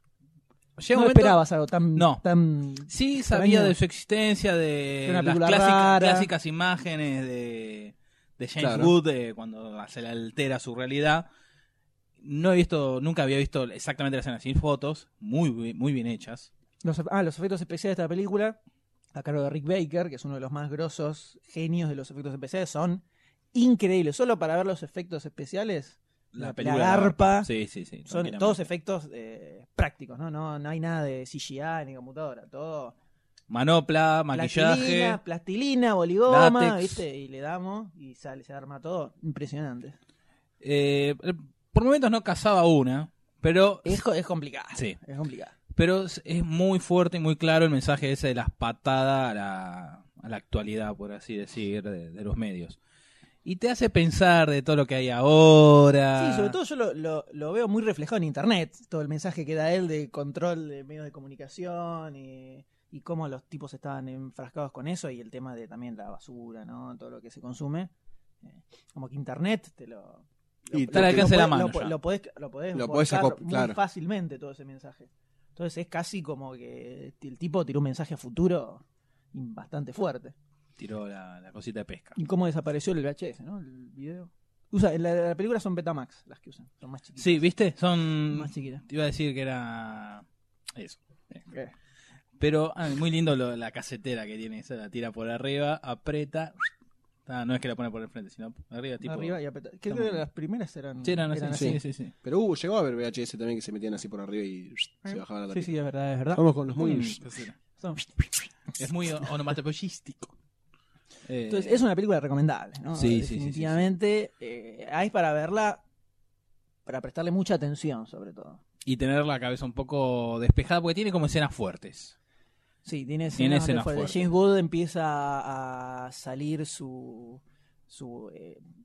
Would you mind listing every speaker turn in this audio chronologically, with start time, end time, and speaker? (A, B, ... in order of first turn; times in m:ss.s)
0:00.8-0:01.4 A
0:00.9-0:03.7 B
0:02.0-0:02.2 A
0:02.9-0:11.2 A
0:05.0-0:06.3 B
0:08.6-0:08.9 C
0:12.2-0:16.5 A
0:16.8-0:18.6 B
0:19.1-0:23.0 B
0:23.5-0:27.5 B
0:26.3-0:28.6 A
0:28.1-0:32.9 B
0:33.5-0:35.2 A
0:34.3-0:40.0 B
0:36.3-0:37.0 A
0:40.6-0:44.0 A
0:43.8-0:45.5 B
0:45.7-0:52.8 A
0:53.4-0:56.5 A
0:56.2-1:07.9 B
1:08.4-1:18.8 B
1:10.7-1:11.4 C
1:10.9-1:12.0 A
1:12.7-1:13.8 C
1:19.3-1:20.3 B
1:20.8-1:22.2 A
1:22.2-1:27.4 B
1:27.2-1:31.4 A
1:28.3-1:28.8 B
1:32.4-1:36.7 A
1:37.2-1:39.4 A
1:39.0-1:41.8 B
1:39.9-1:40.2 A
1:41.0-1:42.1 A
1:41.5-1:45.7 C
1:45.0-1:46.4 B
1:46.3-1:47.2 C
1:46.8-1:47.5 A
1:47.8-1:48.1 B
1:48.8-1:50.3 A
1:51.3-1:51.8 A
1:51.5-1:55.8 B
1:52.9-1:53.9 A
1:56.8-1:58.6 B
1:58.8-2:02.1 A
2:02.8-2:08.6 B
2:03.4-2:04.3 A